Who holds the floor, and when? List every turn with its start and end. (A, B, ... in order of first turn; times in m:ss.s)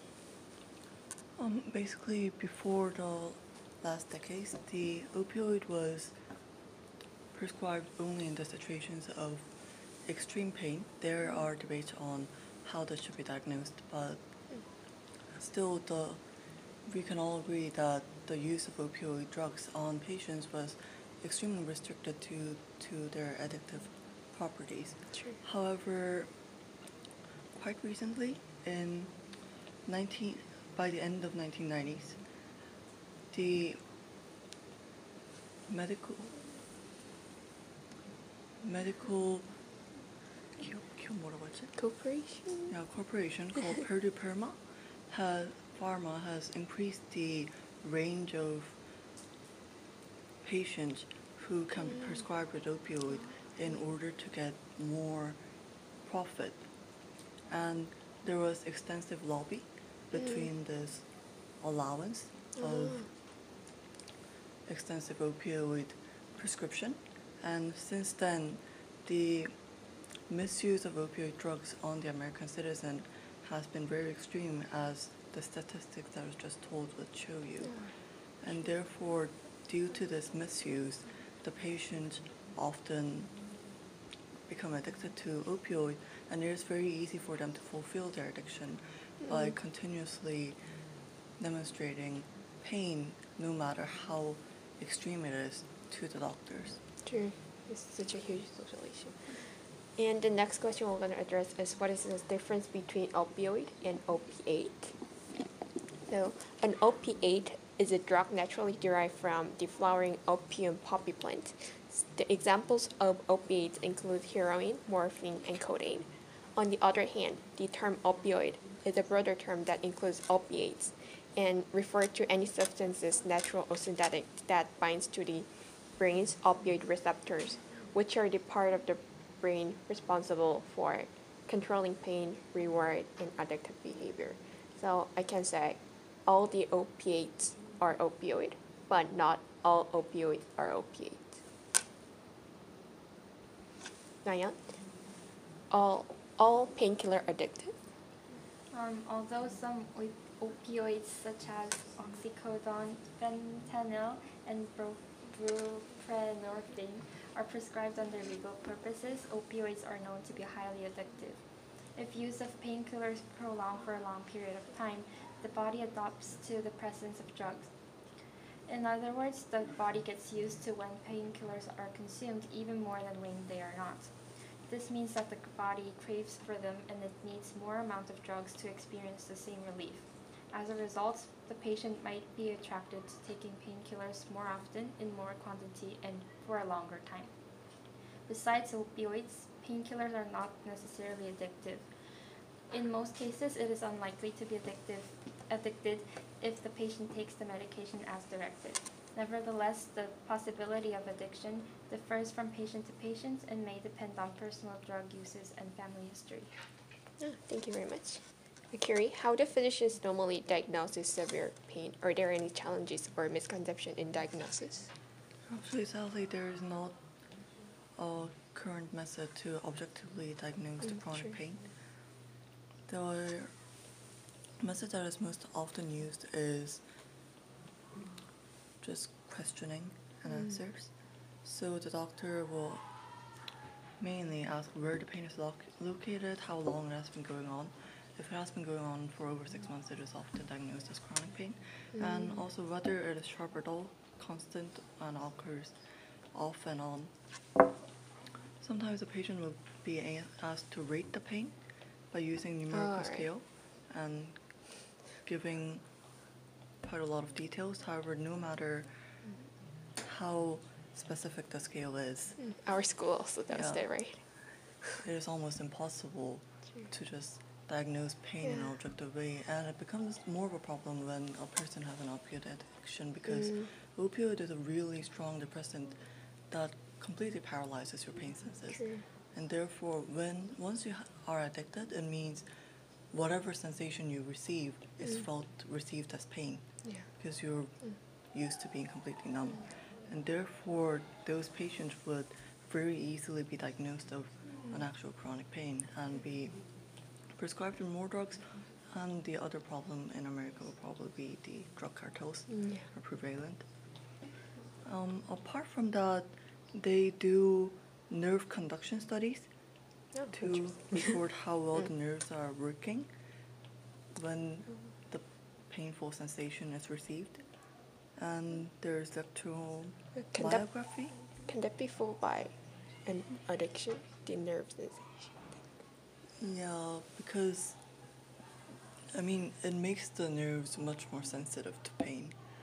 0:01.4-0:06.2 A
0:07.3-0:14.4 A
0:15.3-0:16.2 A
0:16.8-0:26.4 A
0:25.1-0:25.4 B
0:27.6-0:32.2 A
0:33.3-0:33.8 A
0:35.7-0:36.4 A
0:38.6-0:39.6 A
0:40.6-0:41.8 A
0:41.8-0:42.7 B
0:42.7-0:48.8 A
0:50.4-0:55.4 A
0:56.0-0:56.7 A
0:57.5-1:03.1 A
1:00.2-1:00.5 B
1:02.6-1:03.1 B
1:04.7-1:09.6 A
1:10.3-1:23.4 A
1:17.6-1:17.9 B
1:24.5-1:30.6 A
1:29.2-1:29.5 B
1:31.4-1:36.8 A
1:37.0-1:45.0 B
1:46.1-2:21.4 B
2:24.2-2:24.6 B
2:25.7-2:27.8 B
2:28.7-2:47.8 C
2:48.7-3:07.4 C
3:08.3-3:11.9 C
3:12.7-3:26.5 C
3:27.2-3:34.9 B
3:35.5-3:37.0 A
3:38.0-3:41.7 A
3:40.9-3:41.3 B
3:42.9-3:43.6 A
3:44.6-3:46.8 A
3:48.8-3:52.9 A
3:50.3-3:50.6 B
3:54.0-4:05.8 A
4:02.0-4:02.4 B
4:06.3-4:07.2 A
4:08.6-4:15.9 A
4:12.7-4:13.3 B
4:16.8-4:18.9 A
4:20.0-4:22.4 A
4:22.4-4:24.3 B
4:23.5-4:23.9 A
4:25.0-4:42.5 A
4:28.4-4:28.7 B
4:33.3-4:33.7 B
4:38.8-4:39.0 B
4:43.1-5:03.7 A
5:02.5-5:02.8 B
5:04.8-5:09.5 A
5:10.1-5:11.2 B
5:10.3-5:13.1 A
5:14.1-5:17.5 A
5:18.2-5:21.2 A
5:20.2-5:25.6 B
5:26.4-5:27.8 A
5:29.1-5:32.4 A